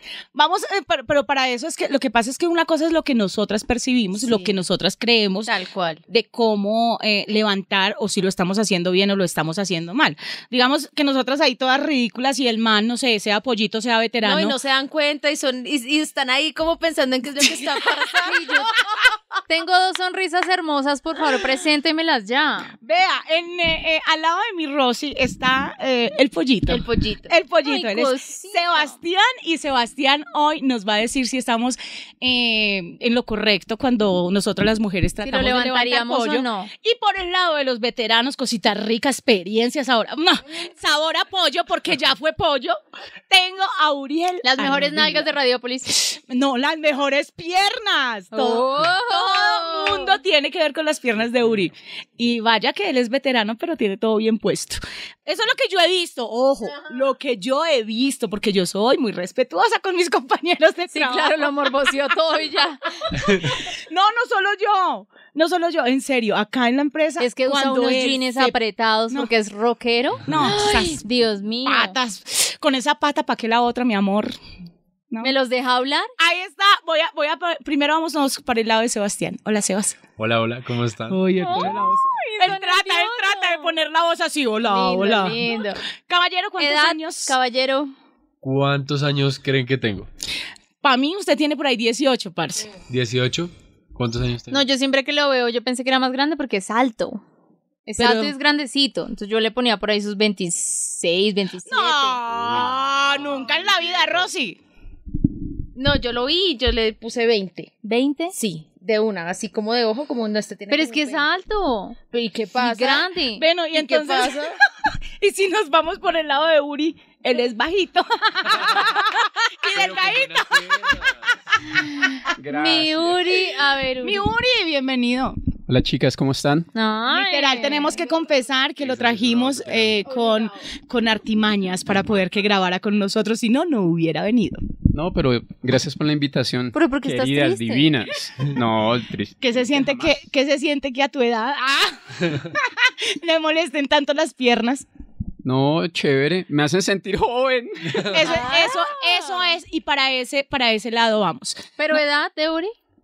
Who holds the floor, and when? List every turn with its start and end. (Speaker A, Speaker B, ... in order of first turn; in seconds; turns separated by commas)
Speaker A: 0.3-5.5, Speaker B: 4.2-4.5, Speaker B: 5.5-6.0, Speaker A: 6.1-14.6, Speaker B: 14.2-19.0, Speaker C: 18.2-18.8, Speaker C: 19.5-22.7, Speaker A: 22.8-45.3, Speaker B: 26.7-27.3, Speaker C: 27.6-28.9, Speaker C: 35.2-36.7, Speaker C: 44.4-46.1, Speaker A: 46.0-61.7, Speaker C: 48.3-50.2, Speaker C: 60.9-62.8, Speaker A: 63.1-68.6, Speaker D: 63.2-63.5, Speaker C: 67.2-72.0, Speaker A: 70.3-71.0, Speaker A: 71.7-74.3, Speaker C: 75.2-76.1, Speaker A: 76.2-80.0, Speaker D: 80.2-82.0, Speaker A: 81.1-87.3, Speaker C: 81.4-83.8, Speaker C: 84.6-85.8, Speaker C: 86.6-87.9, Speaker D: 88.4-90.1, Speaker A: 90.8-92.7, Speaker D: 92.9-94.7, Speaker C: 94.5-97.2, Speaker C: 97.9-102.2, Speaker A: 98.0-98.3, Speaker A: 101.7-104.6, Speaker D: 102.3-104.3, Speaker B: 105.8-107.7, Speaker C: 107.8-108.3, Speaker B: 108.3-111.2, Speaker C: 110.7-112.0, Speaker B: 112.1-113.1, Speaker C: 112.6-113.5, Speaker A: 113.4-114.5, Speaker B: 113.7-114.5, Speaker A: 115.2-121.1, Speaker D: 119.7-121.3, Speaker C: 122.0-124.2, Speaker E: 122.4-123.4, Speaker A: 124.0-125.4, Speaker E: 125.7-126.7, Speaker C: 126.7-128.0, Speaker A: 127.1-134.6, Speaker D: 128.8-130.0, Speaker E: 134.9-140.2, Speaker C: 136.7-138.0, Speaker A: 139.4-144.9, Speaker E: 145.4-148.5, Speaker A: 148.1-152.0, Speaker C: 148.2-149.6, Speaker C: 151.8-152.7